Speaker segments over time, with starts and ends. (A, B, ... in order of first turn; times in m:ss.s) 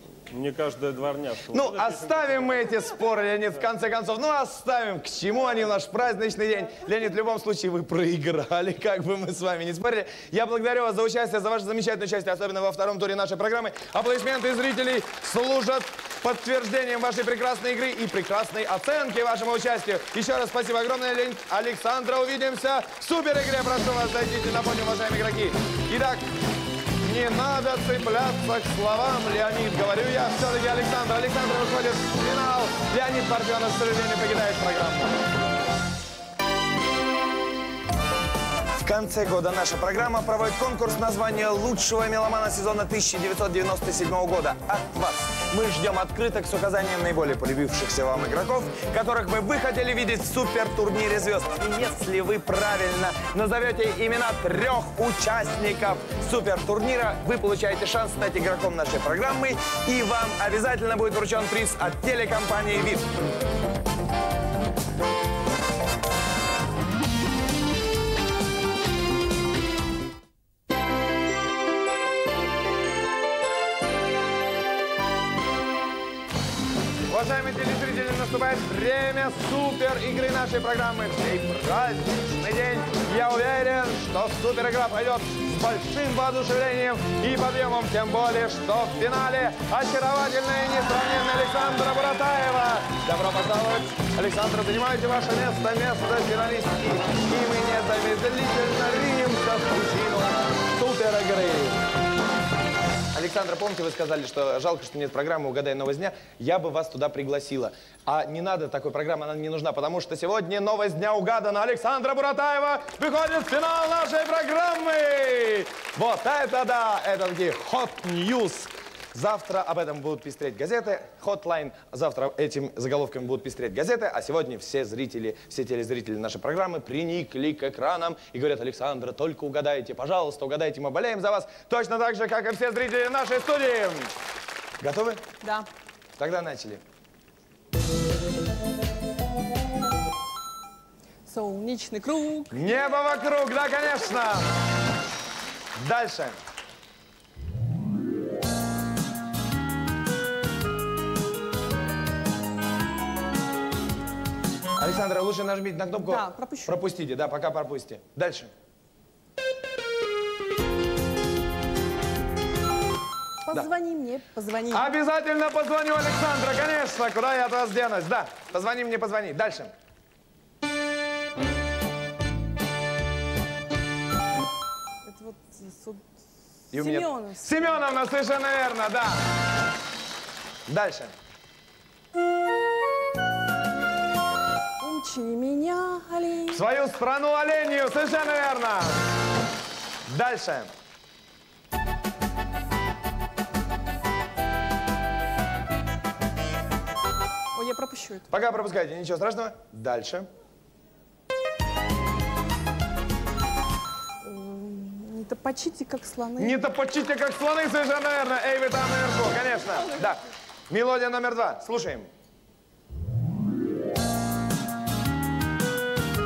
0:00.3-0:02.7 A
0:01.5-0:26.3 B
0:27.0-0:35.2 B
0:38.8-1:03.1 B
1:17.1-1:41.9 B
1:43.1-2:14.1 B
2:14.8-2:15.2 B
2:15.4-2:15.7 C
2:16.2-2:16.8 B
2:21.3-2:22.8 C
2:22.5-2:24.5 B
2:25.8-2:26.4 B
2:34.8-2:38.5 B
2:36.0-2:36.8 C
2:43.4-2:44.9 C
2:44.7-2:49.7 B
2:55.0-2:56.0 C
2:56.7-2:59.2 B
2:56.7-2:57.7 C
3:00.7-3:01.1 B
3:04.8-3:06.6 C
3:06.5-3:09.1 B
3:10.0-3:10.7 B
3:17.5-3:18.3 C
3:18.3-3:20.3 B
3:24.2-3:26.6 C
3:26.4-3:32.1 B